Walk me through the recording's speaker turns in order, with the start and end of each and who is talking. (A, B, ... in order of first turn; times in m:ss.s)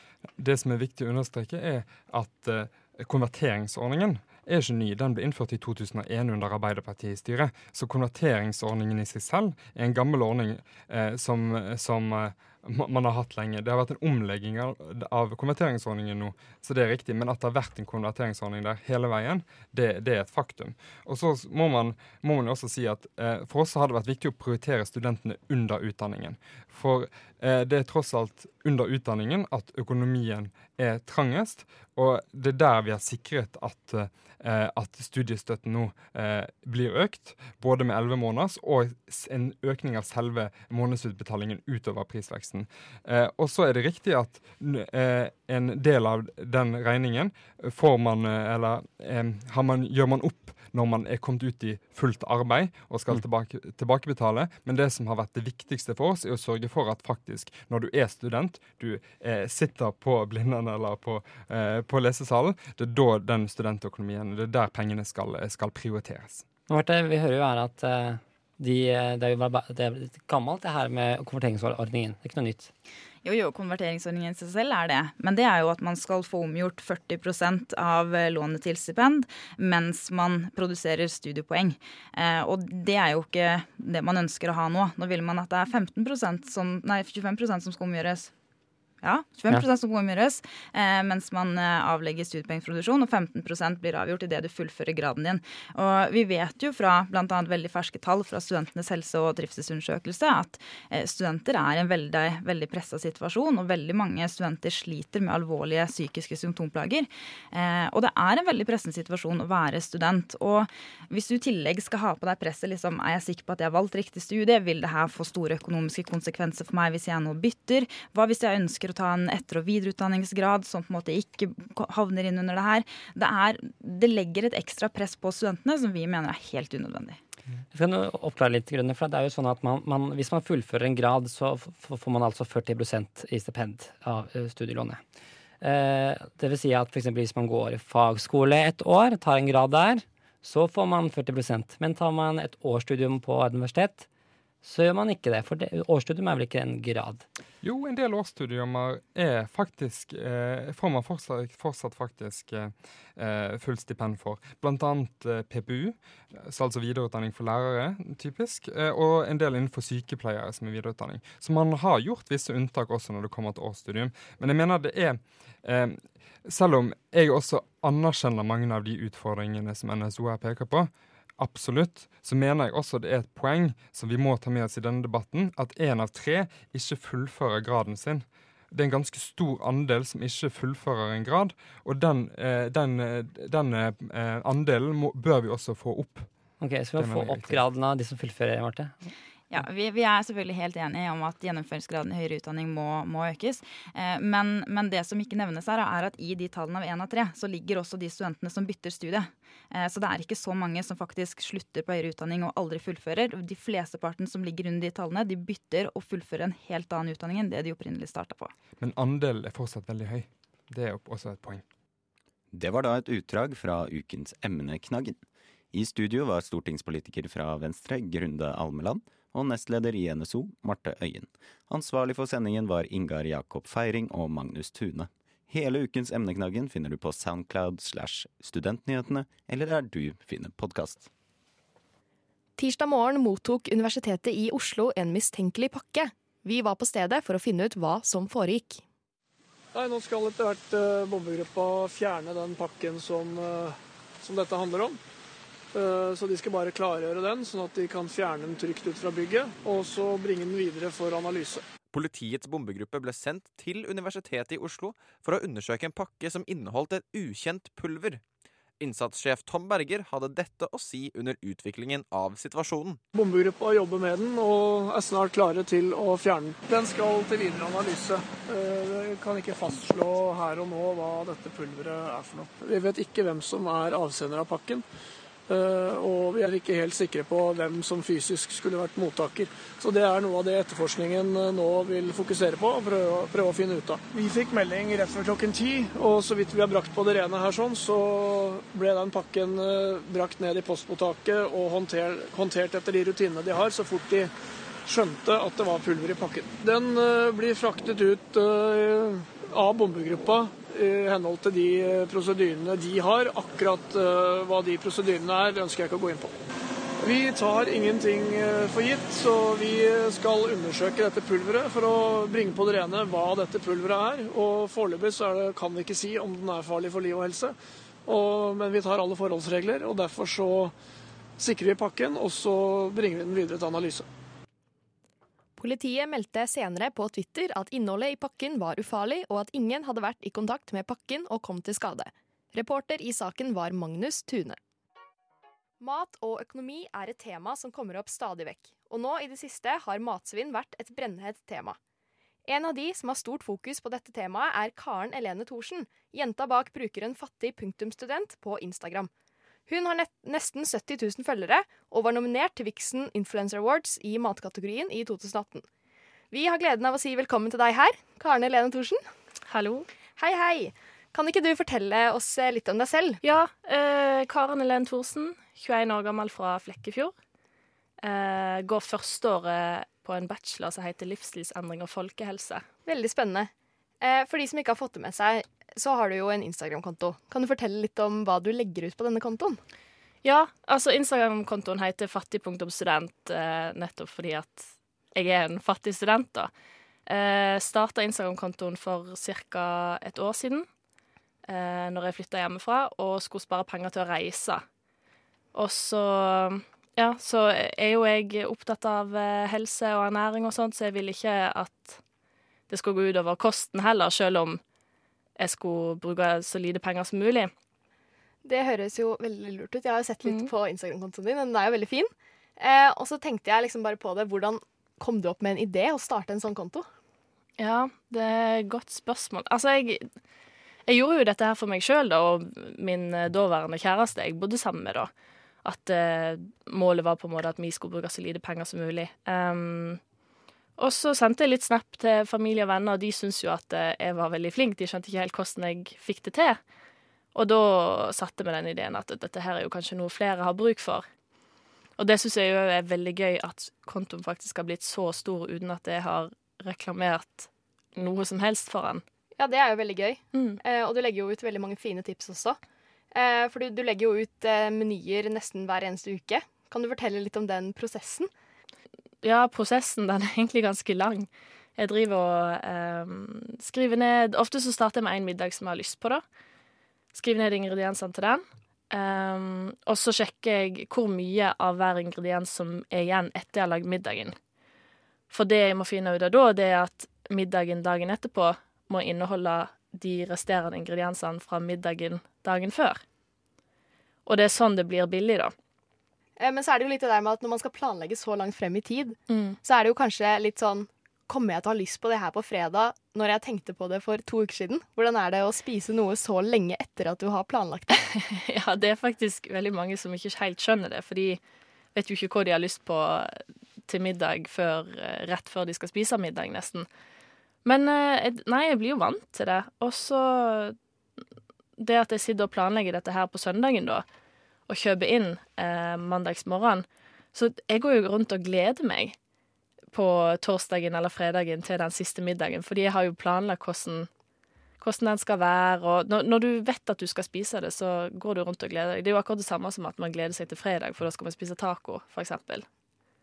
0:00.4-1:06.4 A
1:06.7-1:12.7 B
1:13.2-1:28.3 C
1:29.0-2:07.2 C
2:07.7-2:15.0 B
2:15.6-2:24.1 B
2:24.6-2:27.2 B
2:27.6-3:06.3 A
3:06.6-3:09.1 B
3:07.0-3:07.6 A
3:09.5-3:28.5 C
3:28.8-3:31.6 A
3:32.5-3:35.2 D
3:35.7-3:51.1 D
3:52.6-3:58.8 E
3:59.7-4:05.0 F
4:05.7-4:11.6 F
4:11.9-4:18.2 G
4:18.8-4:23.0 G
4:23.1-4:34.8 F
4:35.5-4:54.3 F
4:54.8-5:06.3 F
5:07.0-5:20.7 F
5:21.4-5:24.1 F
5:25.6-5:34.6 E
5:35.8-5:41.8 E
5:42.5-5:49.1 E
5:49.7-5:55.6 E
5:56.3-5:59.0 E
5:59.5-5:59.9 H
6:00.2-6:03.2 E
6:03.2-6:07.1 H
6:08.0-6:12.6 H
6:12.8-6:13.5 E
6:14.0-6:19.6 E
6:20.2-6:26.5 H
6:27.1-6:30.6 H
6:31.5-6:34.6 H
6:35.5-6:42.0 H
6:42.7-6:44.6 H
6:45.4-6:47.5 H
6:48.4-6:56.8 E
6:57.6-7:00.1 H
7:00.9-7:05.1 H
7:05.6-7:10.0 H
7:10.8-7:16.6 H
7:17.3-7:21.0 H
7:22.0-7:29.0 H
7:29.4-7:32.6 E
7:30.3-7:30.6 H
7:33.1-7:38.3 E
7:39.2-7:46.2 H
7:47.1-7:54.3 H
7:55.3-8:03.0 H
8:04.2-8:05.5 H
8:06.4-8:18.0 E
8:09.3-8:09.6 H
8:17.9-8:21.4 H
8:21.9-8:26.9 H
8:27.6-8:30.8 H
8:31.8-8:34.0 H
8:34.7-8:39.2 H
8:39.9-8:44.1 H
8:44.8-8:52.6 H